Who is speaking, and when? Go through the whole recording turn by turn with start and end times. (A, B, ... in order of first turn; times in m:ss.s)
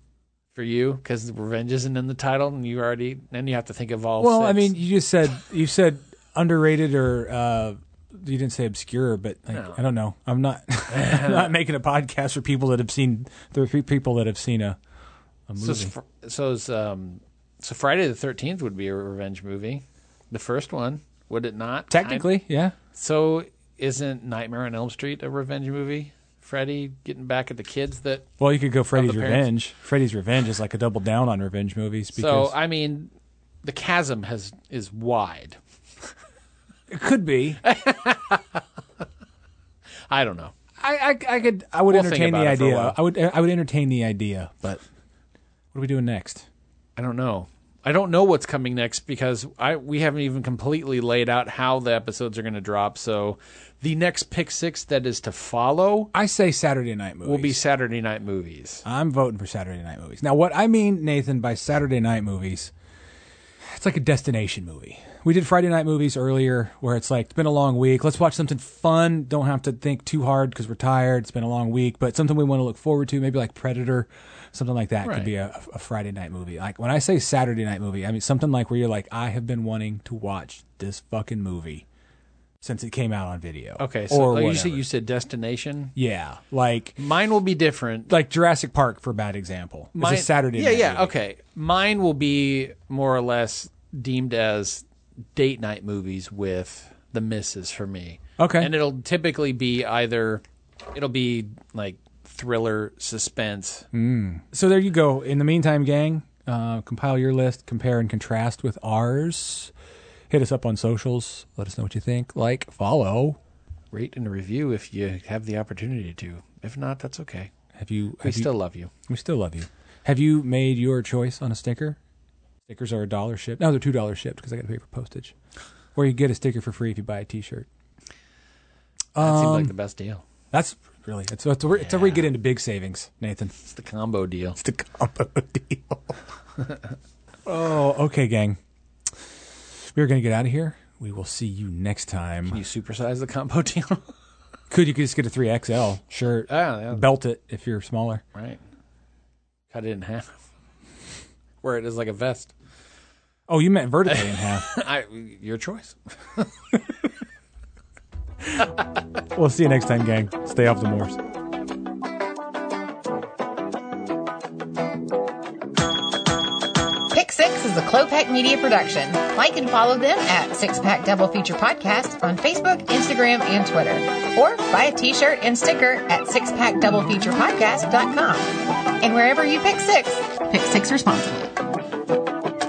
0:00.5-0:04.8 A
0:04.2-0:14.8 B
0:09.5-0:09.8 A
0:10.9-0:11.5 A
0:15.5-0:15.9 B
0:15.6-0:22.3 A
0:21.9-0:22.7 B
0:22.9-0:28.3 A
0:28.4-0:32.5 B
0:28.9-0:29.5 A
0:32.1-0:33.1 A
0:33.6-0:35.6 A
0:36.9-0:37.6 B
0:37.6-0:38.6 A
0:40.1-0:40.5 A
0:40.8-0:44.8 B
0:41.9-0:43.0 A
0:45.7-0:46.5 B
0:47.0-0:56.1 A
0:56.1-0:57.6 B
0:57.2-0:58.8 A
0:58.8-1:02.7 B
1:03.6-1:21.8 B
1:15.0-1:15.3 A
1:22.6-1:24.8 B
1:23.8-1:25.9 A
1:26.0-1:27.0 B
1:27.0-1:28.1 A
1:28.1-1:31.1 B
1:29.9-1:43.8 A
1:38.4-1:38.7 B
1:43.9-1:49.7 B
1:50.3-1:53.4 B
1:53.9-1:57.5 A
1:57.8-1:58.5 B
1:58.2-1:58.9 A
1:59.1-2:02.0 B
2:02.6-2:05.3 B
2:05.9-2:07.7 B
2:09.1-2:09.7 B
2:09.2-2:10.2 A
2:10.5-2:13.5 B
2:11.7-2:12.3 A
2:13.7-2:14.6 A
2:14.6-2:16.1 B
2:17.4-2:18.6 B
2:19.8-2:22.6 B
2:22.5-2:24.0 A
2:24.7-2:28.2 B
2:26.5-2:27.1 A
2:28.3-2:28.6 A
2:29.7-2:30.4 A
2:31.6-2:32.5 A
2:33.5-2:34.7 B
2:34.1-2:36.5 A
2:39.3-2:41.2 B
2:47.1-3:01.5 C